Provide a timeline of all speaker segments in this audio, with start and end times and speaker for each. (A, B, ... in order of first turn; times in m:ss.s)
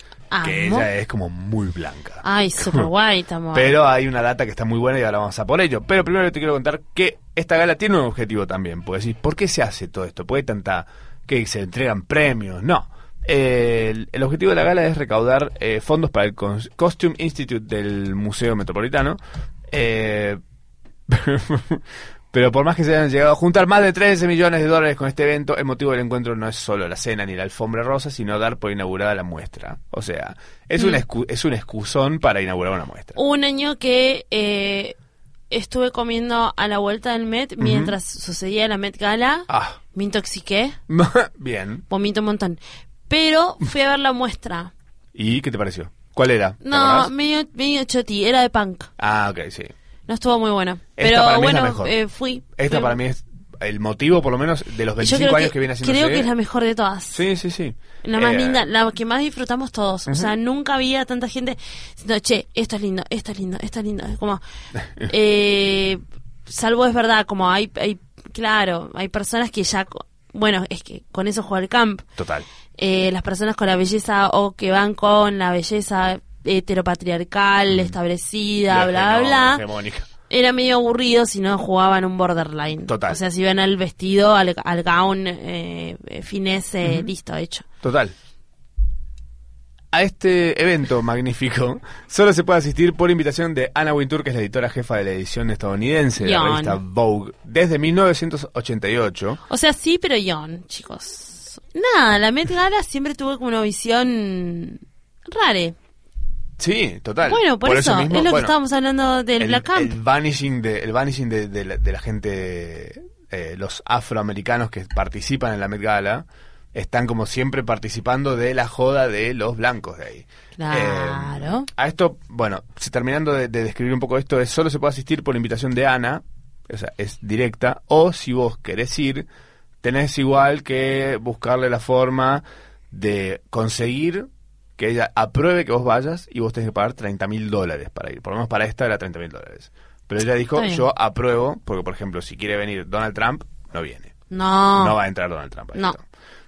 0:00.3-0:00.9 A
0:00.4-0:02.9 B
0:02.2-0:03.7 A
0:03.5-0:20.4 B
0:21.1-0:33.2 B
0:30.8-0:31.0 A
0:33.2-0:35.0 A
0:35.5-0:40.8 A
0:37.6-0:38.0 B
0:39.5-0:39.8 B
0:40.9-0:41.8 B
0:41.9-0:44.7 A
0:45.1-0:47.1 B
0:46.6-0:48.9 A
0:49.0-0:49.7 B
0:50.1-0:53.0 A
0:51.0-0:51.9 B
0:52.6-0:56.3 B
0:55.0-0:57.2 A
0:57.1-0:58.6 B
0:58.0-1:04.4 A
1:00.1-1:00.3 B
1:05.0-1:12.0 A
1:12.2-1:12.5 B
1:12.8-1:19.6 A
1:17.7-1:18.0 B
1:18.7-1:20.1 B
1:20.3-1:27.6 A
1:22.9-1:23.2 B
1:26.8-1:27.1 B
1:27.8-1:28.1 B
1:29.9-1:39.4 B
1:36.2-1:36.8 A
1:39.5-1:45.8 A
1:46.6-1:48.6 B
1:47.3-1:49.9 A
1:49.4-2:09.3 B
2:00.6-2:01.7 A
2:09.8-2:24.1 B
2:20.6-2:20.9 A
2:24.3-2:25.0 A
2:24.8-2:26.0 B